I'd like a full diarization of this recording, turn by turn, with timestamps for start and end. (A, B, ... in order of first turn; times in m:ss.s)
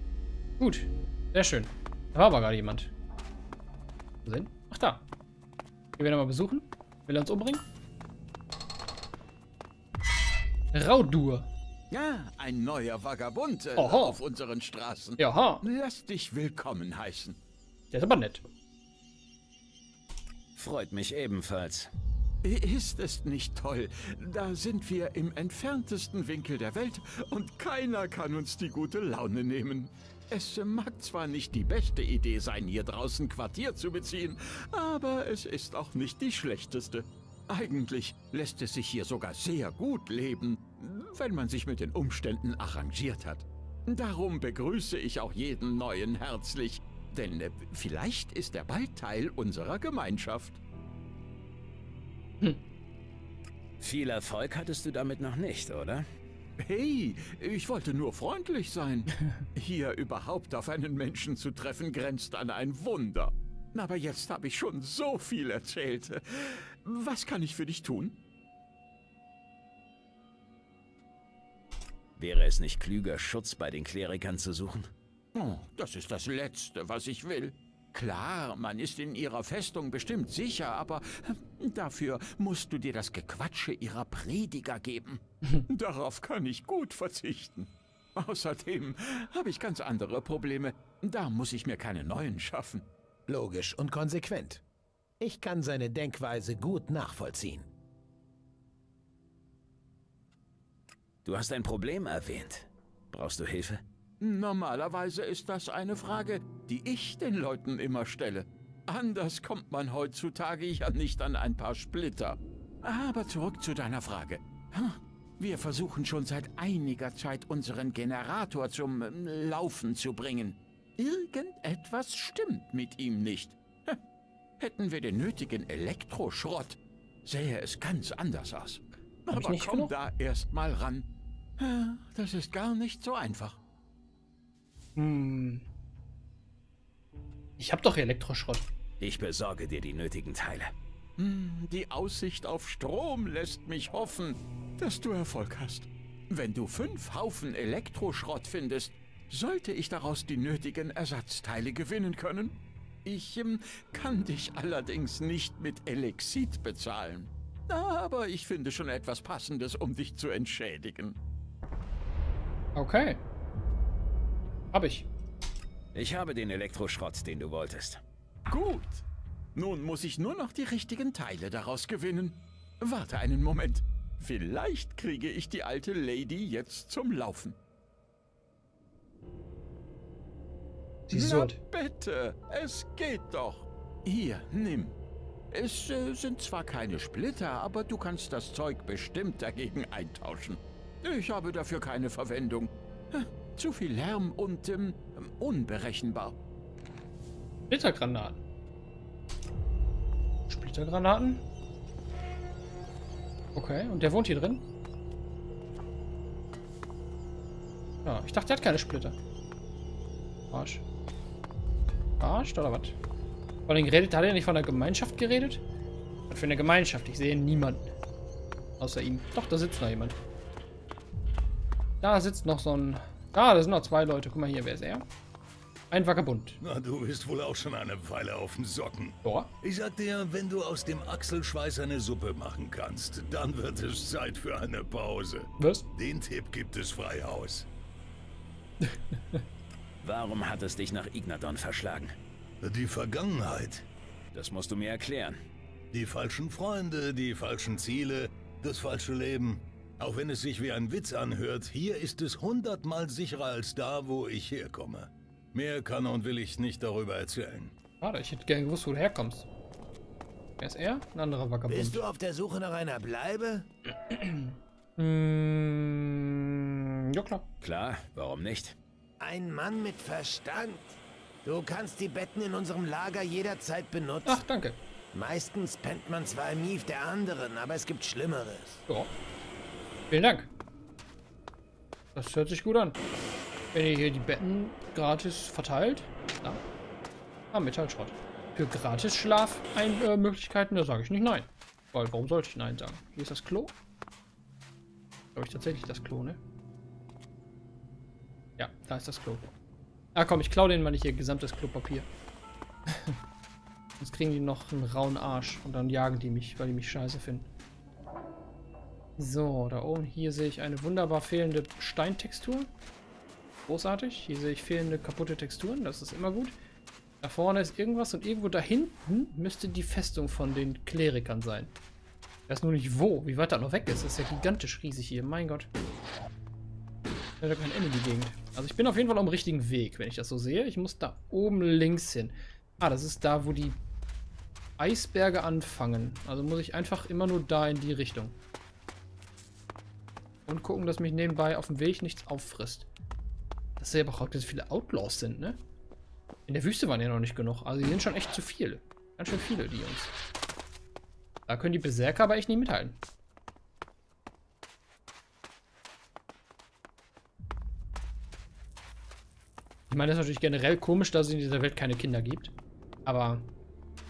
0:00.6-0:02.9 A
0:04.2-0:05.1 A
0:06.0-0:07.6 A
0:10.7-0:11.5 A
0:11.9-0:17.4 B
0:13.8-0:14.2 A
0:15.2-0:15.6 A
0:17.9-0:18.4 A
0:20.6-0:21.9 C
0:22.4-0:50.6 B
0:53.8-0:56.1 C
0:56.6-1:08.2 B
1:12.2-1:14.9 C
1:15.4-1:32.9 B
1:33.3-1:34.6 D
1:35.2-1:37.7 D
1:41.2-1:43.8 C
1:44.2-2:04.0 B
2:04.6-2:11.1 B
2:09.3-2:09.9 A
2:11.6-2:13.6 B
2:15.0-2:15.7 A
2:17.6-2:18.7 A
2:19.0-2:20.7 C
2:21.2-2:41.2 B
2:42.8-2:43.2 A
2:44.7-2:45.1 A
2:45.9-2:48.0 C
2:48.5-2:57.6 B
3:01.1-3:01.6 A
3:01.1-3:05.0 B
3:05.5-3:16.4 B
3:17.7-3:18.4 A
3:20.5-3:21.5 A
3:23.6-3:24.7 A
3:28.0-3:29.2 A
3:30.5-3:30.8 A
3:32.2-3:33.0 A
3:33.7-3:35.6 A
3:36.3-3:37.9 A
3:38.8-3:40.2 A
3:42.0-3:45.0 A
3:45.9-3:46.6 A
3:46.6-3:57.7 E
3:49.2-3:49.5 A
3:55.6-3:55.9 A
3:58.8-3:59.4 A
4:00.0-4:02.1 C
4:02.6-4:03.9 E
4:04.3-4:05.4 C
4:05.9-4:17.8 E
4:18.0-4:19.5 A
4:20.6-4:22.0 A
4:21.7-4:23.7 D
4:24.0-4:27.5 A
4:27.6-4:28.8 C
4:29.2-4:34.4 D
4:34.2-4:34.8 A
4:35.1-4:38.8 D
4:40.1-4:40.5 A
4:42.2-4:43.0 A
4:43.7-4:46.6 A
4:47.5-4:53.8 A
4:55.3-4:56.4 A
4:58.6-4:59.5 A
5:00.2-5:02.1 A
5:02.9-5:03.2 A
5:04.0-5:07.5 A
5:09.2-5:12.7 A
5:13.7-5:16.6 A
5:17.2-5:21.7 A
5:22.5-5:25.7 A
5:27.4-5:33.8 A
5:34.8-5:38.4 A
5:40.5-5:42.9 A
5:43.8-5:45.6 A
5:46.5-5:50.1 A
5:51.5-5:53.0 A
5:59.9-6:02.5 A
6:03.0-6:03.5 A